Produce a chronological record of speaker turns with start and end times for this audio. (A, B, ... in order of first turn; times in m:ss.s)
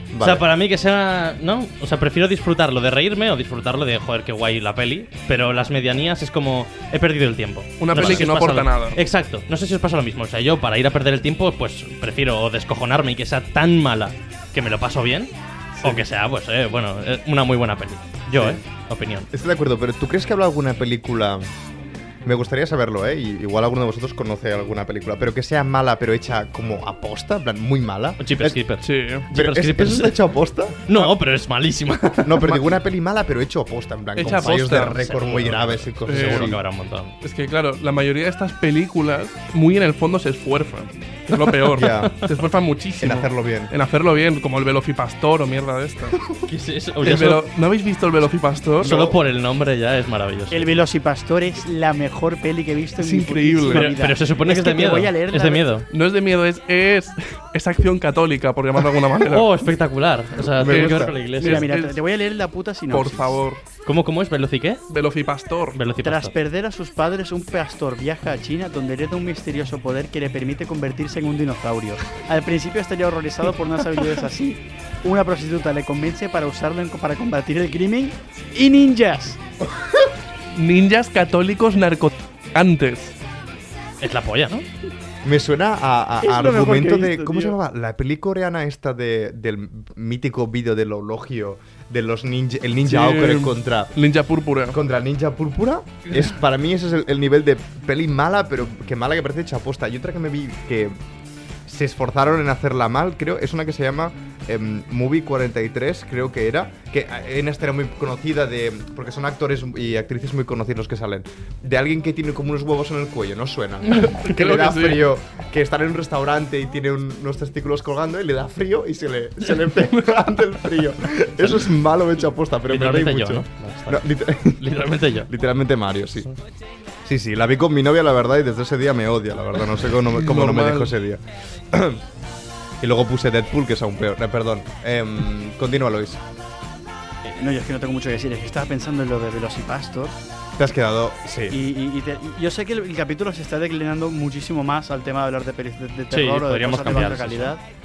0:00.1-0:00.5 A
0:00.2-0:19.3 B
0:07.8-0:09.0 C
0:07.9-0:08.2 A
0:18.3-0:18.6 A
0:19.3-0:21.5 A
0:22.2-0:28.6 A
0:28.2-0:30.2 B
0:28.8-0:29.2 C
0:29.3-0:30.9 A
0:30.8-0:32.7 B
0:32.2-0:36.6 A
0:34.2-0:35.0 C
0:34.2-0:37.2 B
0:36.1-0:36.6 C
0:37.2-0:46.2 C
0:41.7-0:42.2 A
0:41.8-0:42.3 B
0:43.0-0:43.7 A
0:46.5-0:47.4 B
0:47.0-0:48.9 C
0:48.8-0:49.2 A
0:48.8-0:50.7 B
0:50.5-0:55.7 D
0:53.0-0:53.9 C
0:53.7-0:55.9 B
0:55.9-0:59.5 C
0:59.2-1:01.7 B
1:00.5-1:01.2 A
1:00.6-1:02.0 C
1:01.4-1:03.4 D
1:02.9-1:03.6 C
1:03.8-1:04.8 B
1:04.9-1:05.8 C
1:05.7-1:06.3 B
1:06.0-1:19.4 D
1:19.7-1:20.1 A
1:20.5-1:23.1 C
1:24.0-1:24.6 B
1:25.2-1:33.9 A
1:26.2-1:27.6 D
1:32.8-1:34.8 C
1:34.7-1:41.0 A
1:41.6-2:06.3 A
1:53.9-1:54.2 B
1:54.1-1:55.1 C
2:02.7-2:05.3 B
2:07.0-2:12.0 A
2:10.1-2:10.9 C
2:12.8-2:16.2 A
2:17.2-2:20.1 D
2:20.6-2:21.6 A
2:21.5-2:27.6 D
2:26.1-2:27.5 B